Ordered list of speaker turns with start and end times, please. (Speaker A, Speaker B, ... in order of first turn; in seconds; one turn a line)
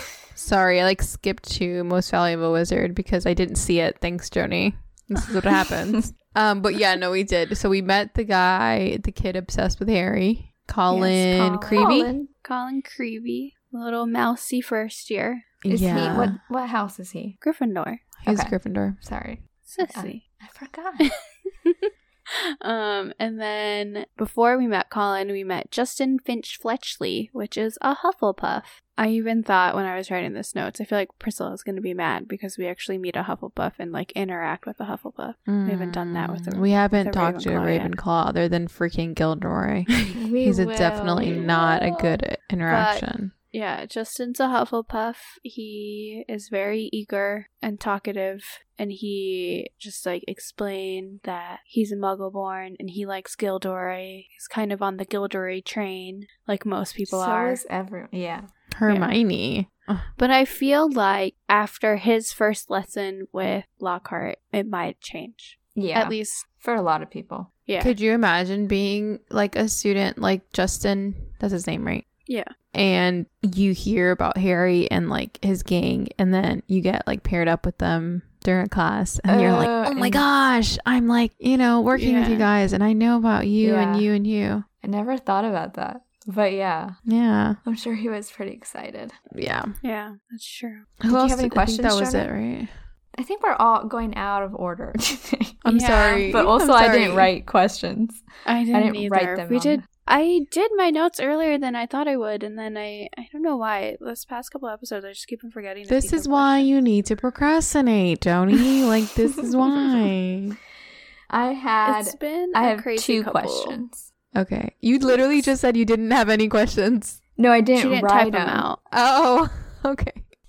Speaker A: 0.3-12.1
Speaker B: 10.9-16.3
Speaker C: 10.9-12.3
Speaker A: 15.6-16.4
Speaker C: 15.7-17.4
Speaker B: 17.4-18.0
Speaker A: 18.2-19.0
Speaker C: 18.3-21.1
Speaker B: 19.7-20.2
Speaker B: 21.0-21.9
Speaker B: 22.6-37.9
Speaker A: 35.5-43.3
Speaker C: 40.2-41.6
Speaker B: 41.0-57.6
Speaker C: 57.1-58.5
Speaker A: 58.7-60.1
Speaker B: 58.9-59.1
Speaker B: 60.2-66.5
Speaker C: 65.8-67.5
Speaker B: 67.7-67.9
Speaker A: 67.8-72.0
Speaker B: 72.3-72.5
Speaker A: 72.7-84.7
Speaker C: 79.3-80.2
Speaker B: 81.9-82.5
Speaker C: 83.6-84.1
Speaker C: 84.8-87.0
Speaker A: 87.1-87.6
Speaker C: 87.6-89.2
Speaker A: 89.3-89.8
Speaker B: 89.8-90.9
Speaker A: 91.0-92.8
Speaker C: 91.1-92.3
Speaker C: 93.2-95.6
Speaker A: 95.6-97.3
Speaker B: 95.7-96.4
Speaker C: 96.3-99.8
Speaker B: 98.5-106.7
Speaker A: 105.9-110.6
Speaker C: 111.3-114.1
Speaker B: 111.8-113.8
Speaker A: 114.3-117.2
Speaker C: 117.4-118.7
Speaker B: 117.8-118.8
Speaker A: 118.9-120.3